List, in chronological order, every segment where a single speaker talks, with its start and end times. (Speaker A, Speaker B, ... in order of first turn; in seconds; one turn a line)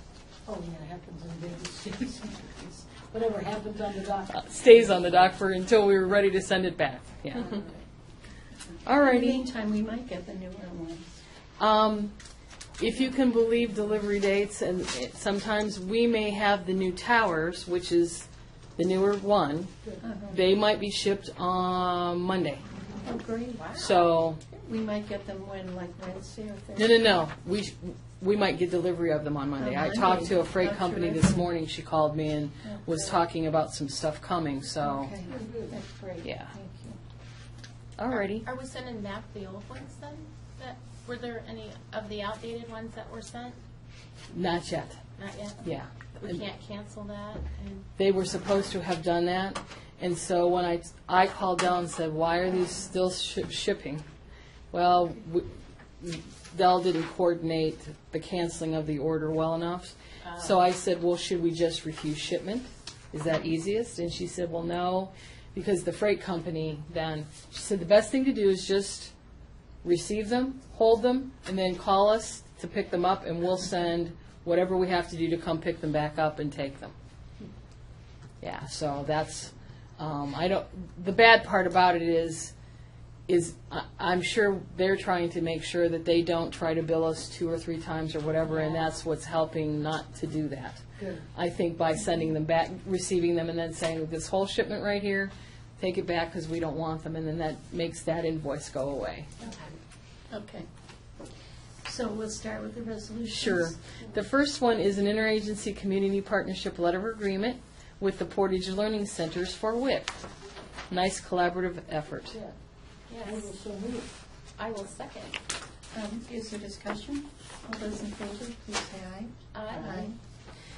Speaker A: 0.5-5.4
Speaker B: 4.3-7.6
Speaker C: 8.7-11.1
Speaker B: 8.8-9.4
Speaker B: 11.6-12.2
Speaker B: 12.8-18.3
Speaker B: 18.8-19.7
Speaker C: 20.0-20.4
Speaker B: 20.3-22.6
Speaker C: 23.0-23.9
Speaker D: 23.6-23.9
Speaker B: 23.8-24.4
Speaker C: 24.5-27.1
Speaker B: 26.8-35.1
Speaker C: 29.6-31.5
Speaker C: 32.6-33.2
Speaker C: 34.8-37.0
Speaker A: 35.3-35.7
Speaker B: 36.2-36.5
Speaker B: 38.0-38.5
Speaker D: 38.1-43.6
Speaker B: 44.3-45.0
Speaker D: 45.2-45.7
Speaker B: 45.6-46.4
Speaker D: 46.2-47.9
Speaker B: 48.0-54.0
Speaker B: 54.7-55.5
Speaker B: 56.0-69.1
Speaker D: 60.2-60.6
Speaker B: 69.8-76.9
Speaker B: 78.4-82.5
Speaker B: 83.3-99.3
Speaker A: 88.5-88.8
Speaker A: 91.0-91.2
Speaker C: 100.3-100.7
Speaker C: 101.8-103.8
Speaker B: 103.3-110.2
Speaker B: 110.9-112.4
Speaker A: 112.2-112.6
Speaker D: 113.1-113.5
Speaker A: 113.2-114.1
Speaker D: 114.6-115.4
Speaker C: 115.9-120.2
Speaker D: 119.5-120.1